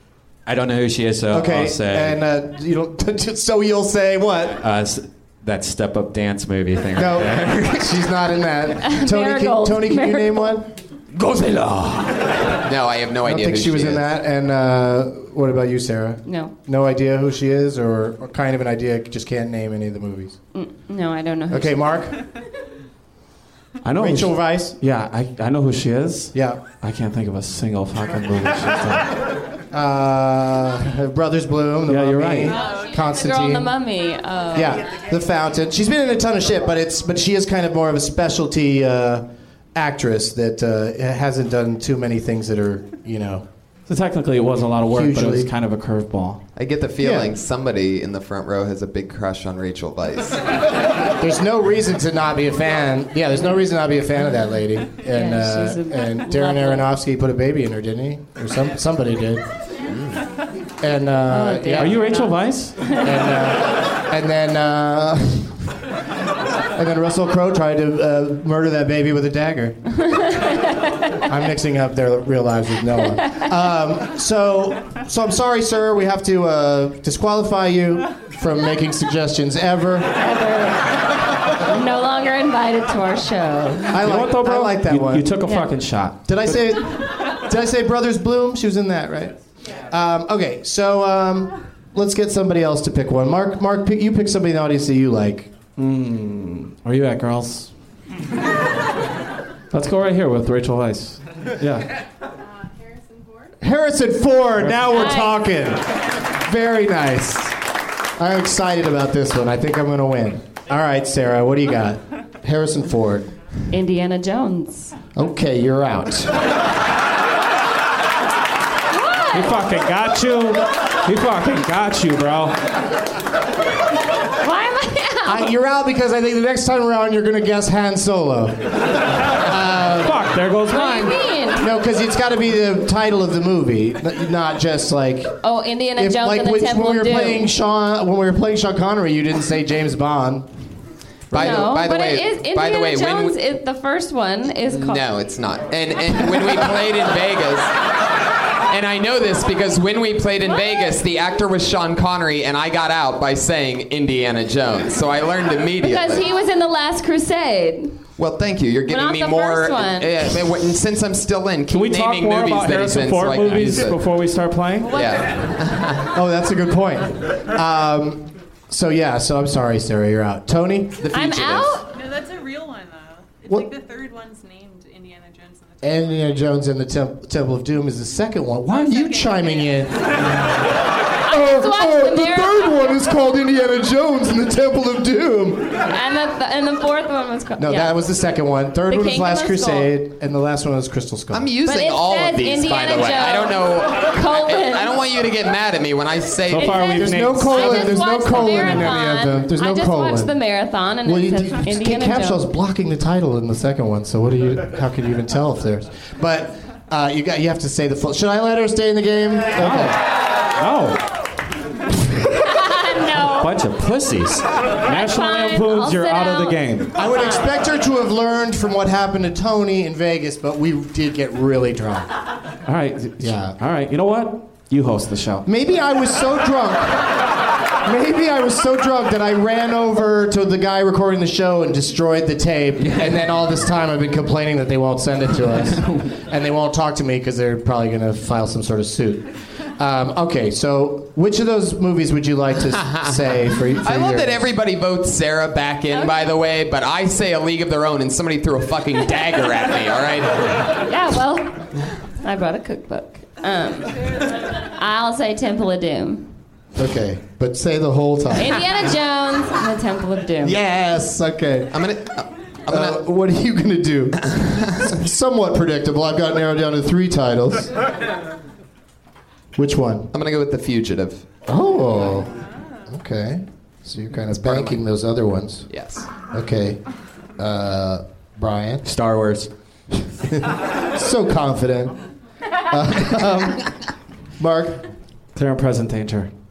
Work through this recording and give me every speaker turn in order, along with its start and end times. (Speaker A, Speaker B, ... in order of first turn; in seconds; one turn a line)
Speaker A: 0.5-2.2
Speaker B: 1.3-4.6
Speaker A: 4.5-8.0
Speaker B: 6.9-12.5
Speaker C: 8.8-10.5
Speaker D: 12.6-14.1
Speaker B: 13.2-20.4
Speaker C: 16.3-16.5
Speaker C: 20.5-21.9
Speaker B: 21.5-22.2
Speaker E: 23.8-29.2
Speaker B: 23.9-24.8
Speaker B: 26.3-26.6
Speaker B: 29.7-33.7
Speaker E: 31.9-32.5
Speaker F: 32.5-33.0
Speaker C: 32.7-34.8
Speaker B: 34.5-43.5
Speaker E: 43.9-46.4
Speaker B: 44.9-45.5
Speaker D: 46.6-50.5
Speaker B: 47.0-47.4
Speaker B: 51.2-59.4
Speaker C: 55.1-56.9
Speaker D: 59.9-60.2
Speaker B: 60.8-62.0
Speaker C: 61.3-63.1
Speaker E: 61.8-62.8
Speaker B: 63.0-65.6
Speaker B: 66.7-69.8
Speaker C: 70.1-71.2
Speaker B: 71.2-80.2
Speaker C: 73.2-73.5
Speaker C: 80.2-84.0
Speaker B: 83.9-85.3
Speaker E: 83.9-86.6
Speaker C: 85.5-85.7
Speaker B: 86.2-95.5
Speaker E: 95.8-97.7
Speaker E: 99.7-101.9
Speaker F: 102.7-103.5
Speaker B: 103.6-107.6
Speaker E: 104.6-104.9
Speaker C: 104.9-105.4
Speaker B: 108.2-113.3
Speaker C: 113.7-114.9
Speaker B: 115.1-116.4
Speaker C: 118.9-119.6
Speaker E: 119.3-122.6
Speaker C: 124.4-125.5
Speaker B: 125.2-130.3
Speaker E: 130.0-131.2
Speaker C: 130.7-131.7
Speaker B: 131.6-135.4
Speaker C: 135.4-137.5
Speaker B: 135.9-140.5
Speaker B: 141.3-141.7
Speaker D: 141.3-143.4
Speaker C: 141.3-145.0
Speaker D: 144.7-147.8
Speaker D: 148.7-156.3
Speaker C: 155.8-158.0
Speaker D: 158.2-164.0
Speaker C: 158.9-160.4
Speaker E: 161.7-164.9
Speaker C: 164.8-165.5
Speaker D: 164.9-166.1
Speaker B: 166.1-171.1
Speaker D: 171.0-171.7
Speaker C: 171.1-171.9
Speaker F: 171.9-176.6
Speaker B: 175.8-180.2
Speaker F: 178.6-179.9
Speaker C: 181.2-183.0
Speaker B: 181.3-185.8
Speaker C: 185.9-187.9
Speaker B: 187.6-191.5
Speaker C: 188.9-189.9
Speaker D: 191.3-197.0
Speaker C: 191.6-195.0
Speaker E: 196.5-197.9
Speaker C: 196.5-202.4
Speaker B: 197.0-200.3
Speaker B: 201.0-210.0
Speaker E: 209.6-210.0
Speaker E: 210.5-211.1
Speaker C: 212.3-213.6
Speaker E: 213.4-217.0
Speaker A: 213.9-214.4
Speaker C: 214.8-217.5
Speaker B: 216.9-222.1
Speaker E: 222.7-225.4
Speaker B: 223.2-223.6
Speaker B: 225.4-227.1
Speaker B: 227.8-244.5
Speaker A: 232.9-233.2
Speaker D: 242.8-243.1
Speaker D: 243.7-250.8
Speaker C: 250.8-256.3
Speaker B: 256.7-258.6
Speaker C: 258.4-260.6
Speaker B: 260.4-261.9
Speaker D: 261.7-263.0
Speaker B: 262.7-267.8
Speaker D: 264.4-264.7
Speaker B: 269.6-270.1
Speaker D: 270.1-271.3
Speaker B: 271.5-272.3
Speaker B: 272.9-275.7
Speaker D: 274.3-274.8
Speaker D: 275.7-276.1
Speaker B: 276.3-276.8
Speaker B: 277.4-278.9
Speaker A: 278.9-279.5
Speaker B: 280.2-282.0
Speaker B: 282.7-283.7
Speaker B: 284.4-284.9
Speaker E: 285.4-286.3